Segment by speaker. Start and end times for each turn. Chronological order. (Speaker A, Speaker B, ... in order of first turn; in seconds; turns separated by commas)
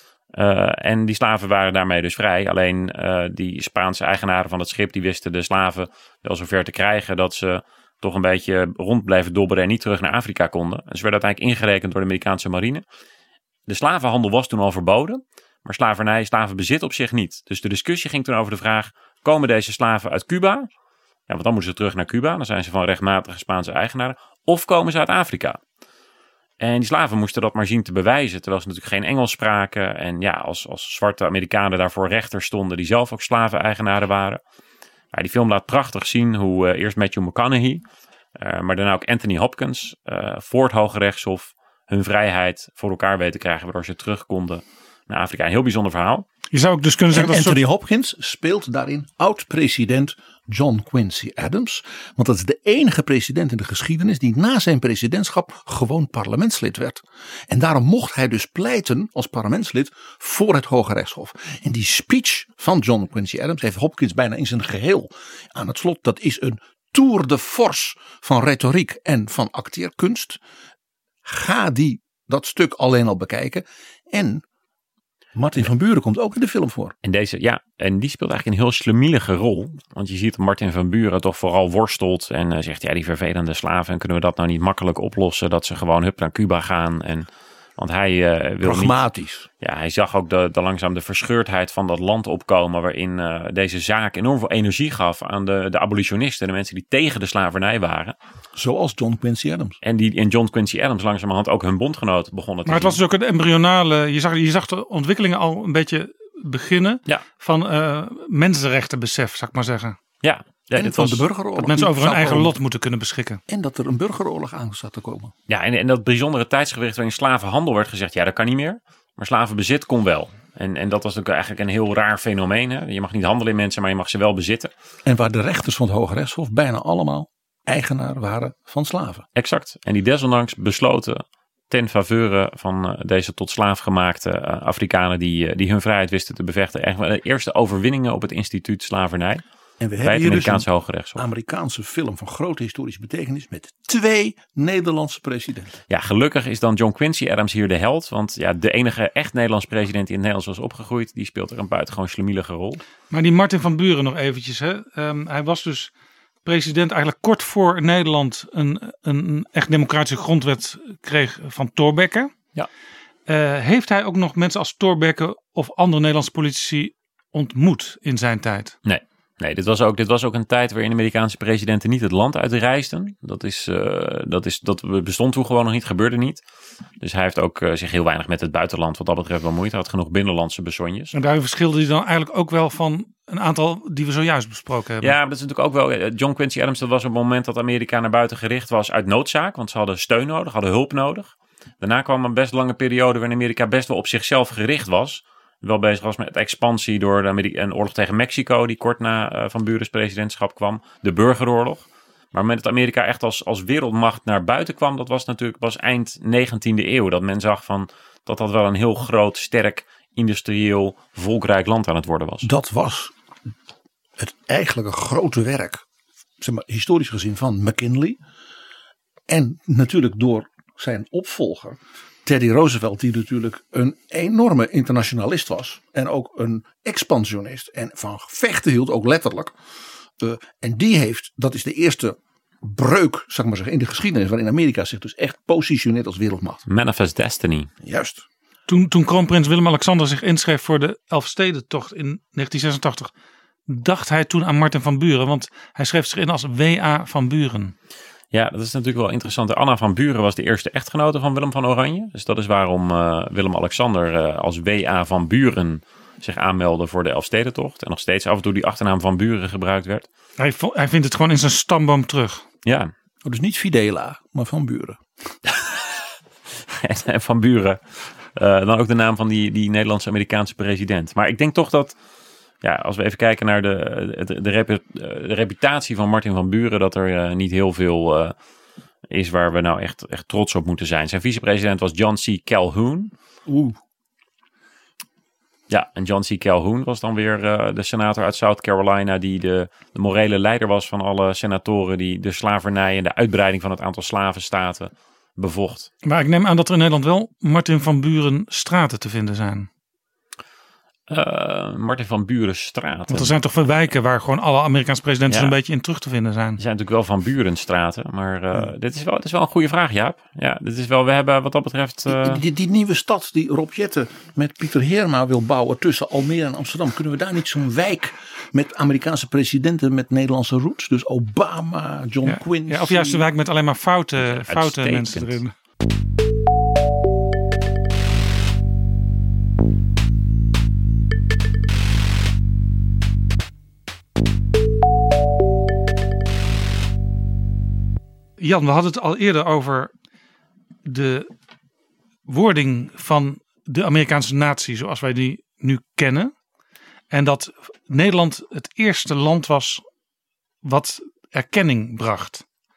Speaker A: 0.3-12.8, Speaker A: 13.7-20.7, Speaker A: 21.3-25.6, Speaker A: 26.6-34.4, Speaker A: 35.1-37.8, Speaker A: 38.4-46.2, Speaker B: 46.5-47.6, Speaker C: 47.1-70.4, Speaker C: 71.2-74.4, Speaker C: 75.3-76.9, Speaker A: 77.0-89.0, Speaker C: 88.6-89.5, Speaker A: 89.6-98.2, Speaker C: 98.5-99.8, Speaker A: 99.8-103.0, Speaker B: 102.7-110.0, Speaker A: 110.2-111.3, Speaker C: 110.7-112.6, Speaker B: 111.6-113.4, Speaker C: 113.5-115.3, Speaker A: 115.5-124.7, Speaker C: 125.0-129.2, Speaker A: 129.3-139.4, Speaker C: 139.8-145.8, Speaker A: 140.0-141.2, Speaker A: 145.9-152.8, Speaker B: 153.1-155.9, Speaker B: 156.4-162.3, Speaker B: 163.3-168.8, Speaker A: 168.8-176.4, Speaker A: 177.0-181.1, Speaker B: 181.1-185.1, Speaker A: 185.0-212.5, Speaker C: 212.4-213.1, Speaker C: 214.2-215.8, Speaker C: 216.4-218.2, Speaker C: 219.3-229.5, Speaker C: 230.2-236.6, Speaker A: 236.7-237.7, Speaker C: 237.8-238.2, Speaker B: 238.7-243.1, Speaker B: 243.7-247.7, Speaker A: 248.3-260.1, Speaker B: 260.4-262.4, Speaker A: 262.6-262.9, Speaker C: 263.2-265.0, Speaker A: 265.5-265.7, Speaker A: 266.7-267.8, Speaker A: 268.3-271.9, Speaker A: 272.6-278.3, Speaker A: 279.1-283.1, Speaker C: 283.4-283.8, Speaker A: 285.7-295.9, Speaker B: 296.0-299.7, Speaker A: 301.1-303.3, Speaker B: 303.1-306.6, Speaker A: 305.3-305.5, Speaker A: 306.6-312.4, Speaker C: 312.1-323.3, Speaker B: 322.2-325.5, Speaker A: 324.2-325.4, Speaker B: 338.4-339.9, Speaker B: 340.8-341.3, Speaker B: 342.3-346.3, Speaker B: 347.1-349.8, Speaker B: 350.6-352.4